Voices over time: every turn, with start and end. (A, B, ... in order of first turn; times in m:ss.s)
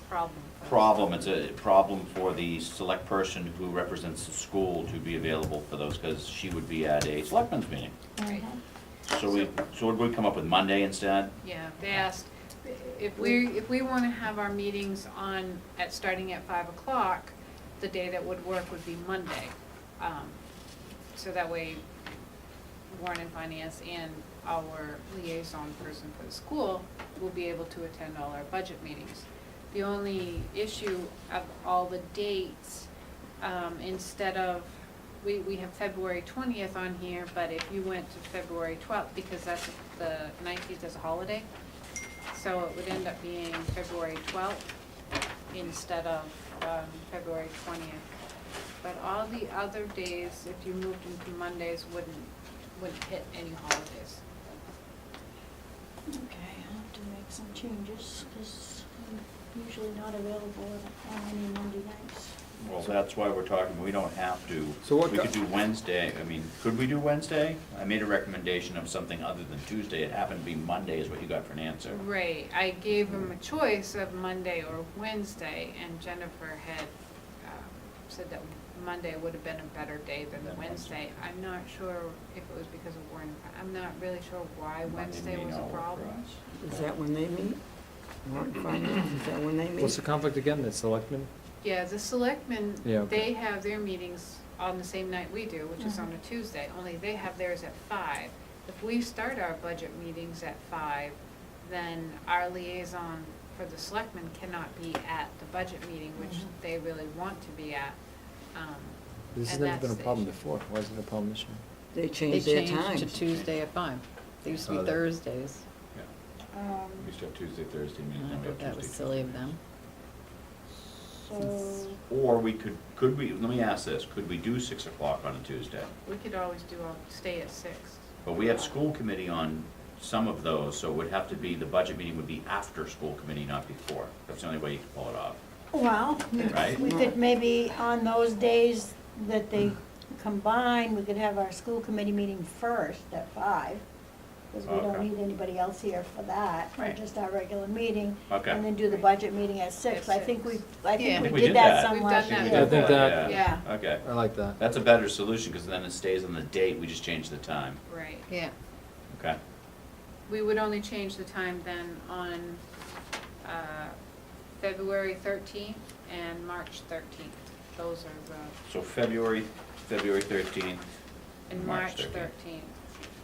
0:00.1-0:01.1 A
0:00.6-0:08.0 B
0:08.2-0:08.6 C
0:08.2-0:08.5 A
0:09.1-0:11.3 B
0:09.2-0:09.5 A
0:11.4-0:20.4 A
0:21.1-0:21.8 A
0:22.9-0:32.9 A
0:33.4-0:41.5 A
0:42.3-0:44.7 A
0:45.5-0:48.0 A
0:48.8-0:54.2 A
0:56.1-1:02.3 C
1:02.6-1:12.0 B
1:04.8-1:05.3 D
1:11.9-1:26.2 A
1:20.3-1:21.0 B
1:24.8-1:26.8 B
1:26.6-1:27.6 E
1:28.2-1:30.0 E
1:29.8-1:31.3 D
1:31.6-1:48.0 A
1:32.8-1:33.3 D
1:35.8-1:36.1 C
1:46.2-1:46.5 C
1:48.5-1:50.3 A
1:49.3-1:51.6 D
1:51.9-1:53.2 E
1:52.3-1:55.6 F
1:54.5-1:55.0 D
1:56.5-1:57.1 C
1:57.0-1:59.5 B
1:58.2-1:59.6 F
2:01.0-2:02.0 C
2:02.1-2:05.9 B
2:06.0-2:08.8 A
2:08.2-2:15.4 B
2:15.7-2:23.8 C
2:16.4-2:17.1 E
2:16.5-2:16.8 B
2:24.5-2:33.6 C
2:24.6-2:25.0 B
2:28.3-2:28.6 B
2:29.8-2:30.6 A
2:31.0-2:31.4 F
2:31.2-2:34.0 B
2:31.7-2:33.6 A
2:32.5-2:34.6 D
2:34.6-2:37.8 B
2:37.9-2:38.3 A
2:38.3-2:38.5 F
2:39.1-2:39.4 B
2:40.3-2:42.6 A
2:43.4-2:43.9 A
2:44.6-2:48.6 A
2:48.7-2:50.8 B
2:51.5-2:52.7 A
2:51.5-2:52.3 B